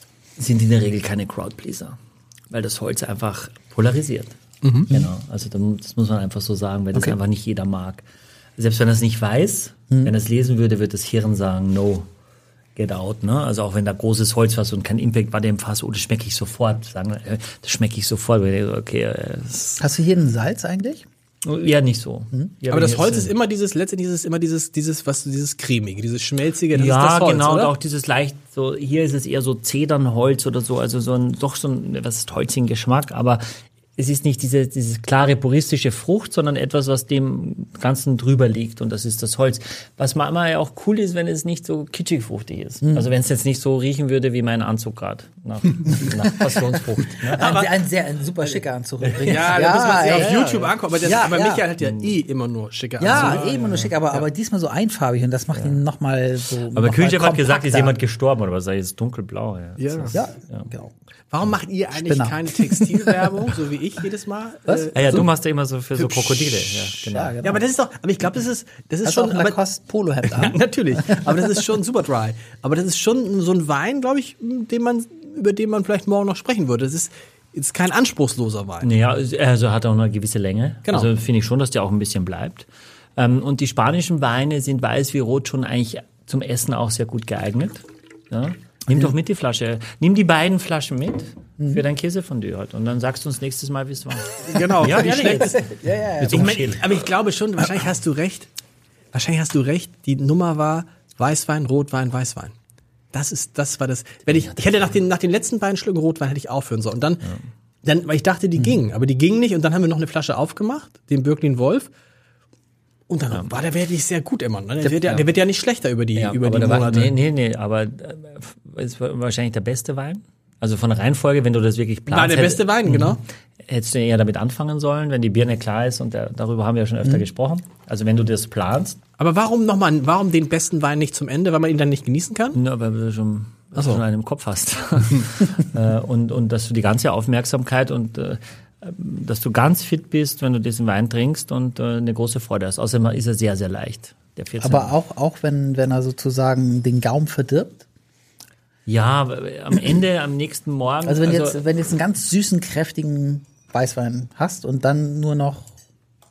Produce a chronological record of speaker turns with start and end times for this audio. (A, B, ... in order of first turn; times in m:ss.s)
0:00.4-0:02.0 A
0:02.5-0:04.4 A
0:04.6-0:04.9 B
0:04.9-0:08.0 A
0:08.6-0:12.1 A
0:12.8-0:19.8 A
0:19.8-0:21.0 C
0:21.4-0:23.3 A
0:22.7-0:27.7 B
0:26.7-0:33.4 A
0:34.0-0:47.5 A
0:42.8-0:43.1 C
0:46.0-0:46.8 C
0:47.3-0:50.4 C
0:47.4-0:47.8 B
0:49.2-0:53.5 B
0:49.2-0:50.7 A
0:51.0-0:51.7 C
0:53.0-0:58.0 C
0:53.0-0:53.9 A
0:56.7-1:00.7 A
0:59.8-1:00.2 B
1:00.1-1:00.9 C
1:01.3-1:05.2 B
1:01.9-1:03.3 C
1:04.7-1:05.2 C
1:04.9-1:07.4 A
1:06.1-1:06.4 B
1:07.0-1:07.6 C
1:07.4-1:09.6 B
1:09.0-1:11.5 C
1:10.2-1:18.9 B
1:18.8-1:36.9 A
1:20.8-1:21.1 B
1:34.5-1:35.6 B
1:34.8-1:36.8 C
1:36.3-1:38.5 B
1:39.1-1:42.5 B
1:43.1-1:47.3 B
1:47.8-1:51.9 B
1:53.1-1:57.1 B
1:54.8-1:55.1 C
1:56.2-2:09.0 A
2:02.1-2:03.2 B
2:09.2-2:12.6 B
2:12.5-2:24.9 A
2:13.8-2:14.0 B
2:24.6-2:27.8 C
2:28.8-2:31.6 A
2:31.0-2:35.7 C